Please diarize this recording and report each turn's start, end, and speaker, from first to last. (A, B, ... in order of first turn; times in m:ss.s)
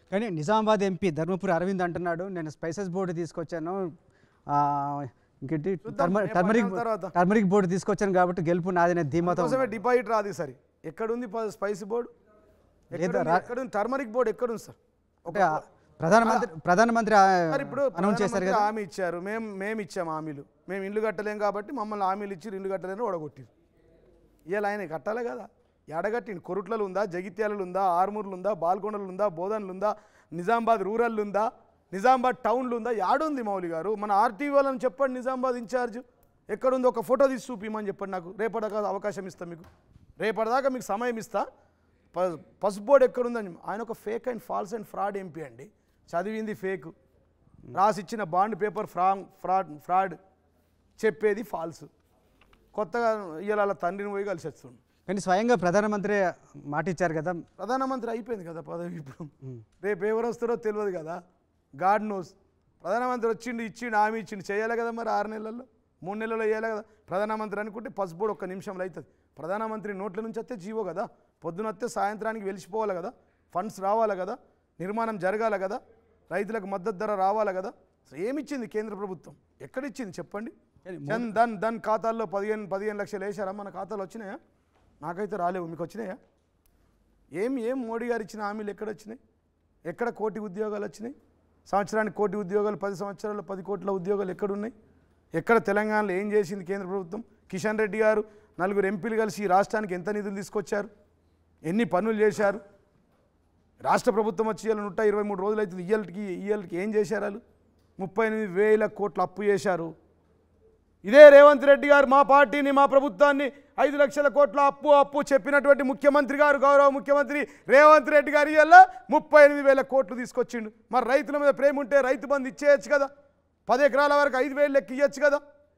0:00.1-0:03.9 A
0:04.5-0:09.7 A
0:05.8-0:07.1 B
0:09.2-0:12.1 B
0:12.9-0:13.4 A
0:12.9-0:14.8 B
0:15.3-0:15.6 B
0:15.3-0:18.7 A
0:16.2-0:16.5 B
0:17.5-0:23.5 B
0:24.5-0:39.7 B
0:40.2-0:41.5 B
0:42.1-0:46.9 B
0:47.7-0:50.2 B
0:51.0-0:51.9 B
0:52.7-0:54.8 B
0:55.0-0:57.4 A
0:57.6-1:01.2 B
1:01.8-1:20.5 B
1:20.8-1:21.3 A
1:21.1-1:24.4 B
1:25.0-1:26.2 B
1:27.3-1:29.2 B
1:29.8-1:31.1 B
1:31.7-1:34.7 B
1:35.3-1:40.9 B
1:41.6-1:42.6 B
1:43.8-1:47.4 B
1:48.0-1:49.9 B
1:51.0-2:03.1 B
2:03.7-2:05.4 B